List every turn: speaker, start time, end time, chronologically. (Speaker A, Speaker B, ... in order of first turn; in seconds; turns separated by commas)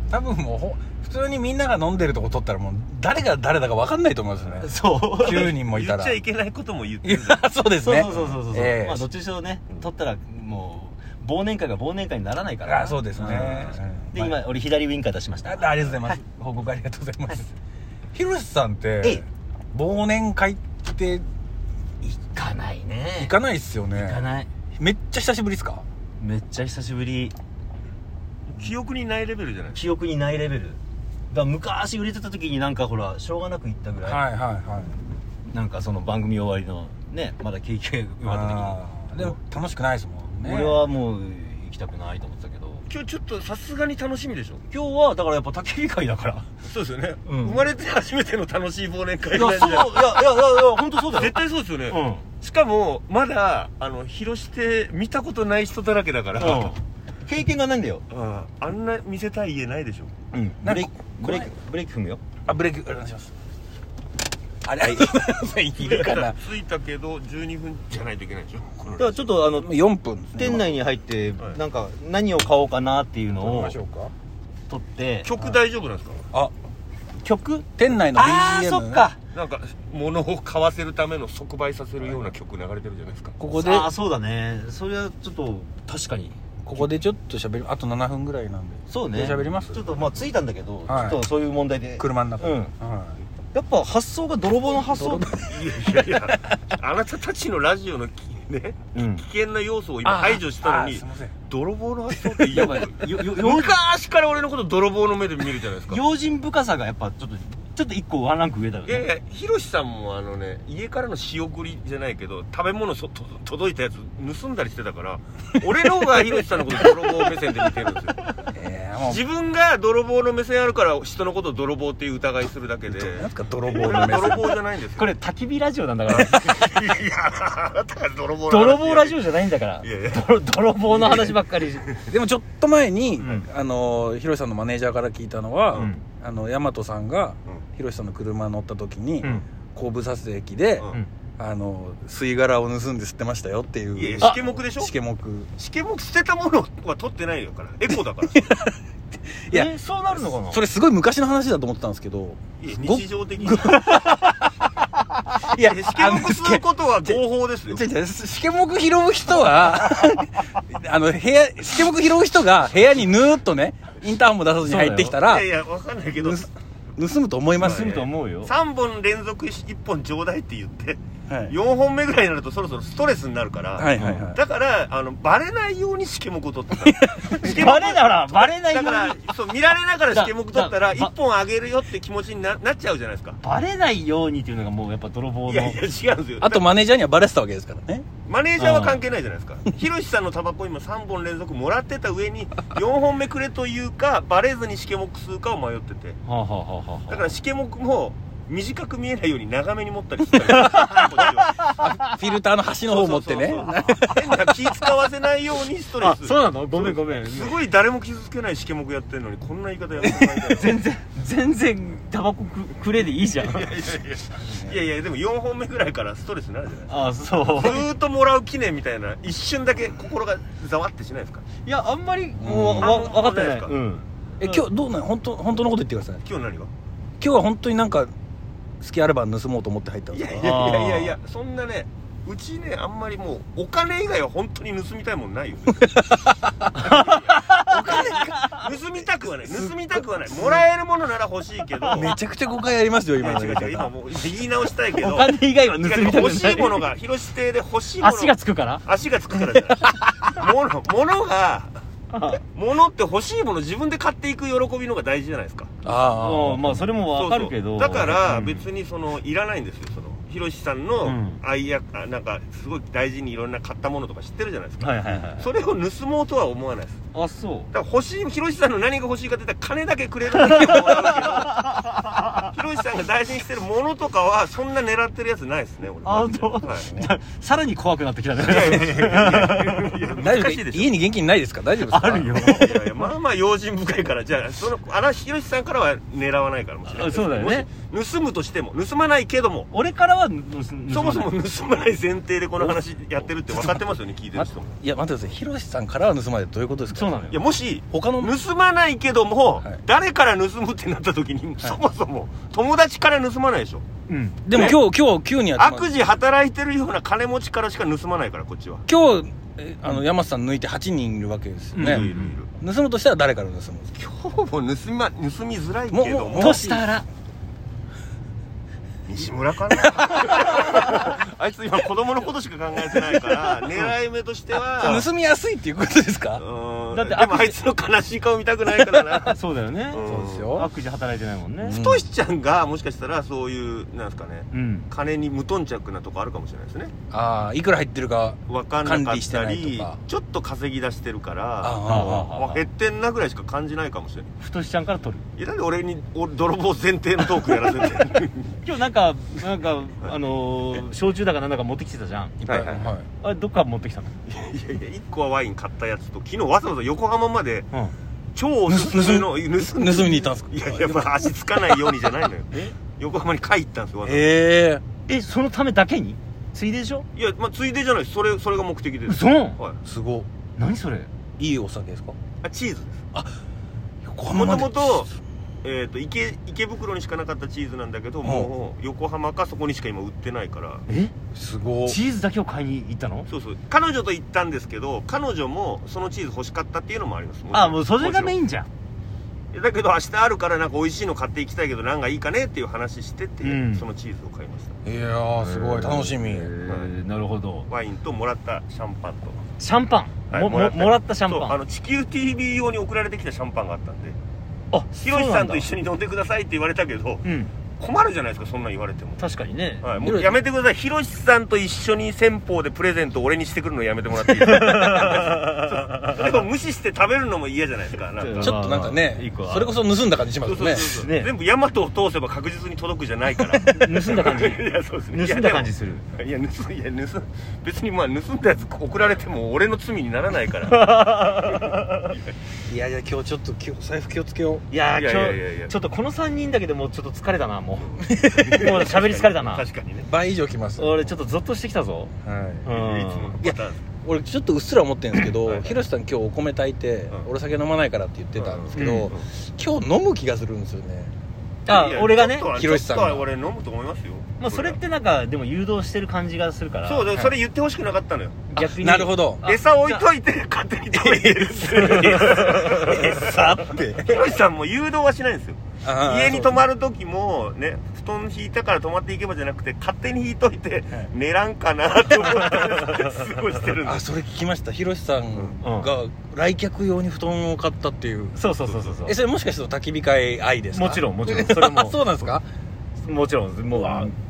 Speaker A: 0.1-6.2, Speaker B: 4.5-7.4, Speaker C: 4.6-5.5, Speaker A: 7.0-9.1, Speaker C: 7.7-16.2, Speaker A: 12.7-14.3, Speaker B: 13.2-13.8, Speaker A: 15.4-17.5, Speaker A: 18.1-21.2, Speaker C: 22.0-23.3, Speaker A: 23.2-24.2, Speaker C: 23.9-24.5, Speaker A: 24.8-25.8, Speaker C: 26.2-27.3, Speaker B: 28.5-29.8, Speaker C: 29.7-34.2, Speaker A: 34.0-35.0, Speaker C: 35.5-39.3, Speaker A: 38.2-40.9, Speaker C: 40.3-42.8, Speaker B: 42.9-44.6, Speaker C: 44.7-46.5, Speaker B: 46.6-50.4, Speaker C: 47.2-47.6, Speaker C: 49.3-52.3, Speaker B: 51.0-56.8, Speaker C: 56.4-58.0, Speaker B: 58.1-60.1, Speaker C: 60.3-62.2, Speaker A: 60.6-61.5, Speaker A: 62.5-63.3, Speaker A: 64.6-66.4, Speaker B: 65.8-69.2, Speaker C: 69.0-69.7, Speaker A: 69.5-70.7, Speaker C: 70.3-73.8, Speaker A: 73.4-74.1, Speaker C: 74.7-75.3, Speaker B: 75.2-76.2, Speaker C: 77.2-79.2, Speaker A: 77.8-79.1, Speaker B: 79.3-83.3, Speaker A: 83.4-83.9, Speaker C: 83.5-86.9, Speaker A: 86.6-90.0, Speaker C: 88.9-92.7, Speaker A: 90.9-91.2, Speaker A: 92.0-93.2, Speaker C: 93.5-95.3, Speaker A: 94.7-95.6, Speaker B: 95.4-106.0, Speaker C: 98.9-99.2, Speaker A: 100.0-101.4, Speaker A: 102.1-102.8, Speaker C: 102.5-103.8, Speaker C: 105.9-109.1, Speaker B: 108.8-118.3, Speaker A: 118.5-119.2, Speaker B: 119.0-125.1, Speaker A: 122.9-124.5, Speaker C: 123.8-126.8, Speaker B: 126.2-129.2, Speaker A: 126.2-126.6, Speaker C: 128.5-131.9, Speaker B: 129.8-130.4, Speaker B: 130.9-131.3, Speaker A: 132.0-145.5, Speaker C: 133.2-133.5, Speaker C: 135.7-136.0, Speaker B: 143.9-144.9, Speaker C: 144.2-144.6, Speaker B: 145.6-148.5, Speaker A: 148.3-148.8, Speaker A: 149.4-149.7, Speaker C: 149.5-150.6, Speaker A: 150.3-154.5, Speaker B: 152.6-153.9, Speaker C: 153.8-154.4, Speaker A: 155.4-165.5, Speaker B: 155.5-157.8, Speaker C: 164.6-165.2, Speaker B: 165.1-166.5, Speaker A: 166.2-167.9, Speaker C: 167.6-168.5, Speaker B: 167.6-183.4, Speaker A: 171.3-171.5, Speaker A: 173.8-174.4, Speaker C: 173.9-174.3, Speaker A: 176.8-177.3, Speaker C: 177.4-179.3, Speaker C: 180.1-181.1, Speaker C: 183.4-185.8, Speaker B: 185.5-186.6, Speaker A: 186.4-188.1, Speaker B: 188.2-196.2, Speaker C: 188.6-189.0, Speaker C: 196.2-197.3, Speaker B: 197.1-201.6, Speaker C: 200.5-202.2, Speaker A: 201.6-204.6, Speaker B: 202.8-210.8, Speaker C: 203.8-204.3, Speaker C: 206.0-207.6, Speaker A: 210.0-210.4, Speaker C: 210.5-213.7, Speaker B: 213.4-221.4, Speaker C: 216.9-217.9, Speaker C: 221.6-224.5, Speaker A: 222.4-223.0, Speaker B: 222.8-223.7, Speaker A: 224.4-226.2, Speaker B: 226.2-226.7, Speaker A: 227.2-228.1, Speaker A: 228.8-230.6, Speaker B: 230.1-236.1, Speaker C: 230.4-231.2, Speaker A: 235.8-236.9, Speaker C: 236.7-238.6, Speaker B: 236.8-242.1, Speaker A: 237.7-238.5, Speaker A: 239.2-239.7, Speaker A: 240.3-240.6, Speaker C: 241.8-242.1, Speaker A: 241.9-243.9, Speaker B: 243.2-251.7, Speaker C: 244.9-246.9, Speaker C: 248.0-248.8, Speaker C: 252.1-252.4, Speaker B: 252.5-255.7, Speaker A: 255.8-256.9, Speaker C: 255.8-258.7, Speaker B: 257.0-267.0, Speaker C: 261.0-261.4, Speaker C: 264.8-265.5, Speaker C: 267.1-267.7, Speaker B: 267.7-271.8, Speaker C: 270.3-272.5, Speaker B: 272.3-276.9, Speaker C: 276.0-280.0, Speaker A: 276.6-277.1, Speaker B: 278.4-281.0, Speaker A: 280.2-282.5, Speaker C: 281.9-283.0, Speaker B: 282.2-289.7, Speaker C: 286.9-287.7, Speaker C: 289.7-291.3, Speaker B: 290.9-294.8, Speaker A: 293.5-293.9, Speaker A: 294.4-297.2, Speaker C: 296.9-297.4, Speaker B: 297.3-303.8, Speaker A: 297.9-298.3, Speaker C: 304.1-304.8, Speaker A: 304.4-305.9, Speaker B: 304.5-304.8, Speaker B: 305.6-308.8, Speaker A: 308.9-313.9, Speaker C: 311.7-312.4, Speaker B: 311.8-312.5, Speaker B: 314.0-316.6, Speaker A: 315.9-316.9, Speaker C: 316.3-317.0, Speaker B: 319.1-325.1, Speaker A: 319.8-320.9, Speaker A: 324.8-326.4, Speaker B: 326.4-330.5, Speaker C: 326.9-327.6, Speaker C: 329.2-331.8, Speaker A: 330.0-330.7, Speaker A: 331.6-332.1, Speaker B: 331.6-336.9, Speaker C: 334.5-334.9, Speaker A: 337.1-340.0, Speaker B: 338.5-344.3, Speaker A: 341.6-342.4, Speaker C: 341.8-342.7, Speaker C: 344.4-345.2, Speaker B: 345.4-348.6, Speaker C: 348.6-354.1, Speaker B: 352.4-352.9, Speaker A: 352.5-353.1, Speaker B: 354.3-357.7, Speaker B: 358.3-364.3, Speaker A: 358.7-361.8, Speaker A: 364.0-364.8, Speaker C: 365.1-367.1, Speaker B: 367.1-369.8, Speaker C: 369.1-369.6, Speaker A: 369.8-370.3, Speaker C: 370.6-371.1, Speaker A: 371.4-372.2, Speaker B: 372.4-373.0, Speaker A: 374.0-375.1, Speaker B: 374.3-375.1, Speaker B: 375.6-380.8, Speaker A: 378.2-378.5, Speaker C: 380.9-381.1, Speaker A: 381.3-382.0, Speaker C: 381.9-383.3, Speaker B: 383.3-388.3, Speaker C: 387.5-388.7, Speaker B: 389.5-394.8, Speaker C: 393.4-393.9, Speaker A: 394.8-396.5, Speaker C: 395.4-397.7, Speaker B: 396.6-396.9, Speaker B: 397.7-399.4, Speaker C: 399.6-401.6, Speaker B: 400.3-404.2, Speaker C: 404.7-405.7, Speaker B: 405.0-407.3, Speaker C: 407.2-407.5, Speaker B: 407.8-409.2, Speaker C: 409.2-409.9, Speaker B: 409.8-418.8, Speaker A: 410.0-410.3, Speaker C: 414.4-416.5, Speaker C: 418.2-419.8, Speaker A: 418.4-420.9, Speaker B: 420.4-432.3, Speaker C: 420.7-421.3, Speaker C: 423.7-426.1, Speaker C: 430.7-432.1, Speaker A: 432.7-434.6, Speaker C: 434.7-439.6, Speaker B: 434.9-435.7, Speaker B: 437.8-440.1, Speaker A: 438.2-438.6, Speaker A: 440.1-441.2, Speaker C: 440.8-442.1, Speaker A: 442.2-442.7, Speaker C: 442.6-443.4, Speaker B: 442.7-443.8, Speaker A: 443.4-451.1, Speaker B: 445.4-445.7, Speaker B: 448.3-449.2, Speaker C: 448.7-449.1, Speaker B: 451.6-454.8, Speaker C: 451.7-452.5, Speaker A: 452.5-453.3, Speaker C: 454.4-457.1, Speaker B: 456.8-458.5, Speaker C: 458.5-460.0, Speaker A: 458.6-459.4, Speaker B: 459.4-474.1, Speaker A: 460.9-463.8, Speaker C: 461.6-464.3, Speaker A: 465.8-466.6, Speaker A: 472.2-472.6, Speaker A: 473.8-478.4, Speaker C: 475.6-475.9, Speaker C: 478.3-479.2, Speaker B: 478.6-478.9, Speaker A: 479.0-482.4, Speaker C: 480.7-482.3, Speaker C: 483.0-484.1, Speaker A: 483.7-484.1